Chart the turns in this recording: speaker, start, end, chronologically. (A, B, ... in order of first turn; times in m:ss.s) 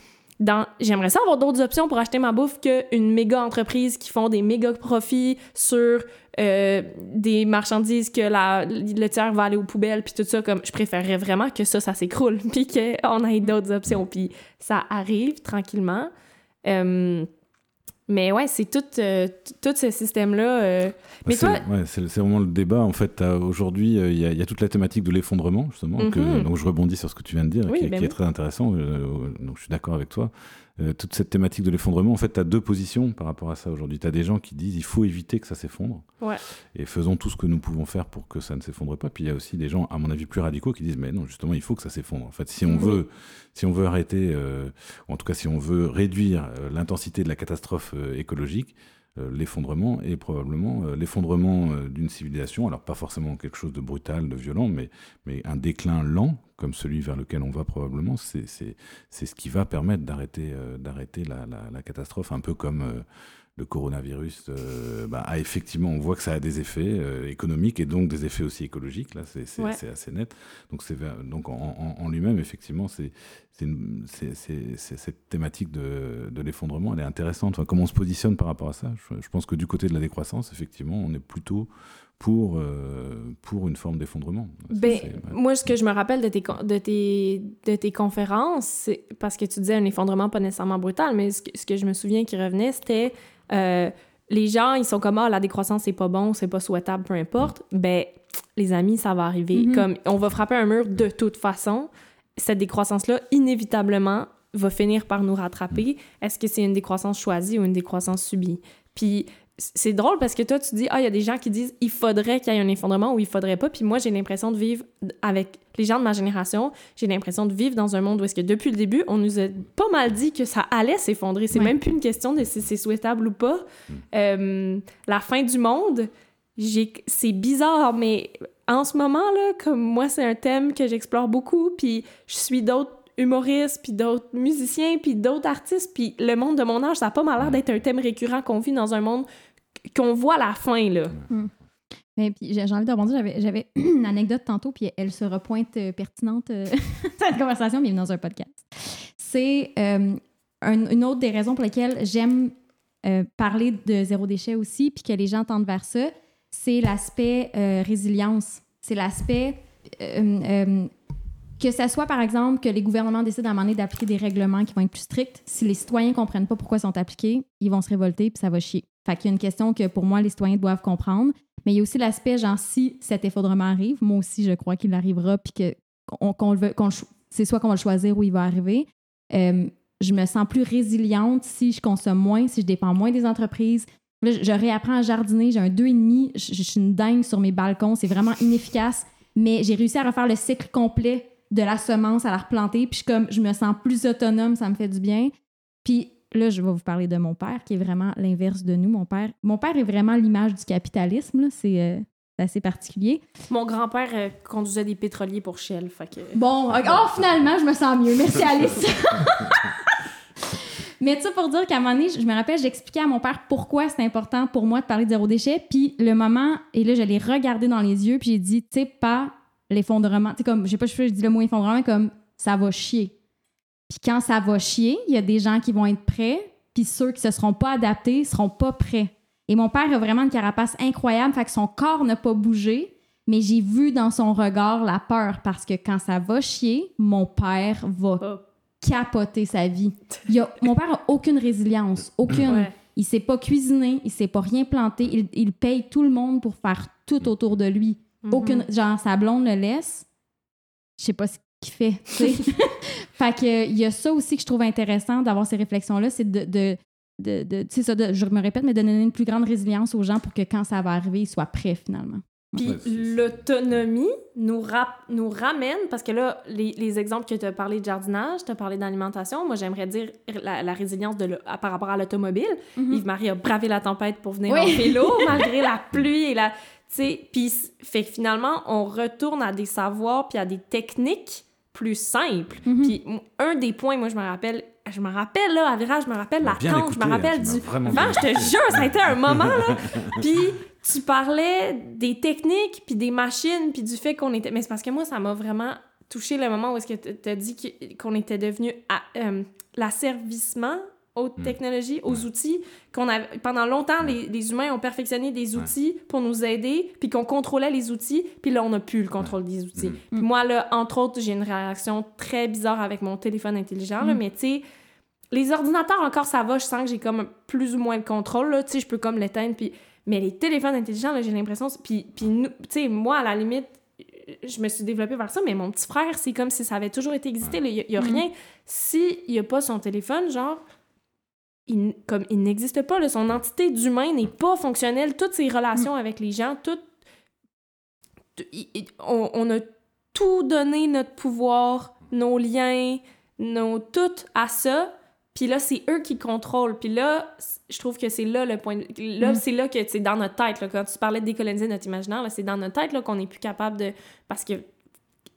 0:00.4-0:16.1 A
0:16.6-0:17.3 A
0:18.1-0:21.6 A
0:21.3-0:36.1 B
0:26.0-0:26.5 A
0:27.7-0:28.2 A
0:36.7-1:03.0 B
0:42.6-0:43.0 C
1:03.6-1:25.4 B
1:24.7-2:19.3 A
1:39.5-1:39.9 C
2:19.9-2:21.2 A
2:22.2-2:40.9 C
2:41.6-3:15.3 C
3:15.8-3:23.2 C
3:23.5-3:26.4 A
3:26.4-3:43.1 C
3:43.9-3:58.3 C
3:58.8-4:10.1 C
4:02.5-4:02.7 A
4:08.2-4:08.6 A
4:11.0-4:22.7 C
4:22.6-5:14.6 A
4:22.6-4:23.2 B
4:32.8-4:33.0 C
4:34.5-4:35.4 C
4:42.7-4:43.0 C
4:46.4-4:50.2 B
5:09.3-5:10.0 B
5:15.3-5:30.6 A
5:31.7-5:36.8 A
5:38.4-5:54.6 A